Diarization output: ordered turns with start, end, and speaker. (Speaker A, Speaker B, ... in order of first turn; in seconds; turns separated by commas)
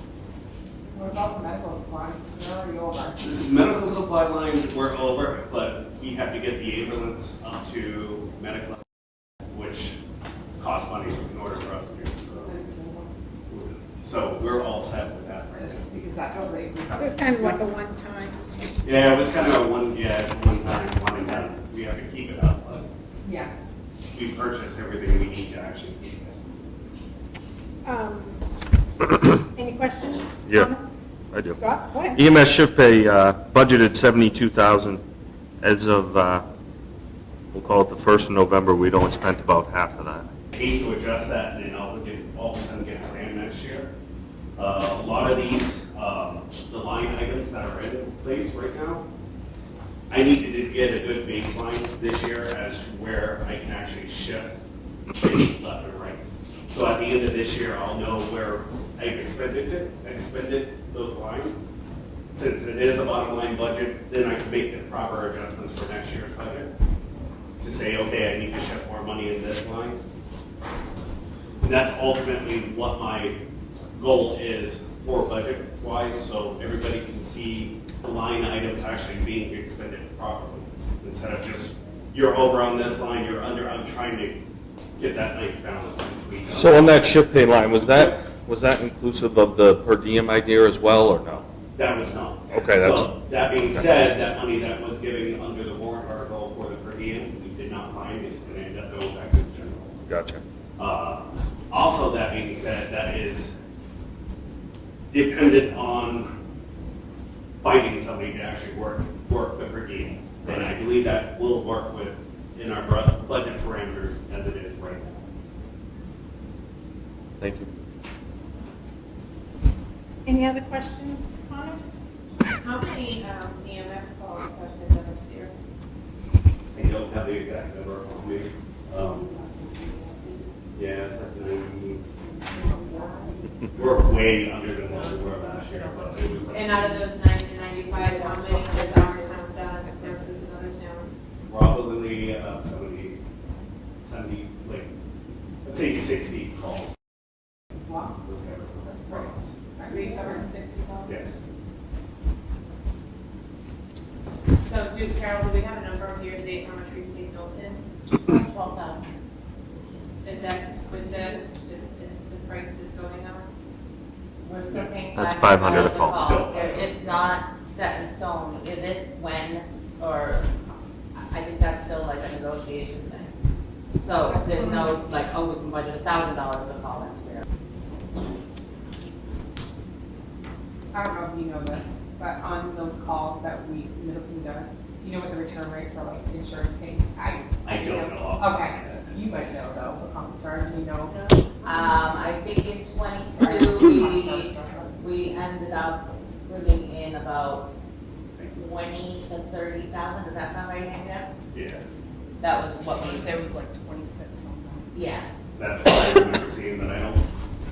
Speaker A: 0.9-3.2, Speaker B: 3.2-8.8, Speaker B: 9.5-10.0, Speaker B: 10.6-12.6, Speaker A: 12.4-13.1, Speaker B: 13.5-15.9, Speaker A: 15.6-17.6, Speaker C: 16.9-18.4, Speaker B: 18.8-22.9, Speaker A: 23.2-23.5, Speaker B: 24.1-26.4, Speaker C: 27.8-28.4, Speaker C: 29.5-32.2, Speaker D: 30.5-30.7, Speaker D: 31.3-31.6, Speaker D: 32.1-35.0, Speaker D: 35.6-36.4, Speaker D: 37.5-40.2, Speaker B: 40.5-43.9, Speaker B: 44.5-49.0, Speaker B: 50.1-54.6, Speaker B: 55.2-61.6, Speaker B: 62.3-66.7, Speaker B: 67.6-70.0, Speaker B: 71.6-73.4, Speaker B: 74.0-84.4, Speaker B: 85.0-87.1, Speaker D: 86.5-91.4, Speaker B: 87.8-88.1, Speaker B: 91.7-100.0, Speaker D: 92.5-93.8, Speaker D: 100.1-100.4, Speaker B: 100.8-103.6, Speaker B: 105.1-106.3, Speaker B: 107.6-115.2, Speaker D: 117.4-117.7, Speaker C: 120.2-121.9, Speaker E: 122.6-125.5, Speaker B: 126.7-129.3, Speaker A: 129.3-130.4, Speaker B: 130.7-132.0, Speaker A: 132.3-133.5, Speaker E: 132.6-133.3, Speaker B: 133.7-137.0, Speaker F: 134.9-136.8, Speaker E: 136.4-141.1, Speaker A: 137.9-139.2, Speaker B: 141.4-143.2, Speaker B: 144.0-144.9, Speaker B: 145.6-146.9, Speaker A: 147.8-148.2, Speaker B: 148.2-149.5, Speaker A: 148.8-151.3, Speaker E: 149.9-150.4, Speaker F: 150.1-150.4, Speaker B: 151.0-151.4, Speaker E: 154.5-157.8, Speaker F: 158.2-159.1, Speaker E: 160.2-163.5, Speaker F: 164.4-170.5, Speaker D: 165.1-166.3, Speaker B: 165.6-167.0, Speaker F: 171.1-173.3, Speaker F: 173.9-177.4, Speaker A: 174.4-174.9, Speaker A: 180.9-191.1, Speaker B: 187.6-189.2, Speaker F: 191.1-197.7, Speaker A: 193.3-195.0, Speaker F: 198.5-201.3, Speaker B: 201.5-201.8, Speaker F: 202.4-203.5, Speaker A: 203.0-204.9, Speaker F: 204.9-205.3, Speaker B: 205.6-207.2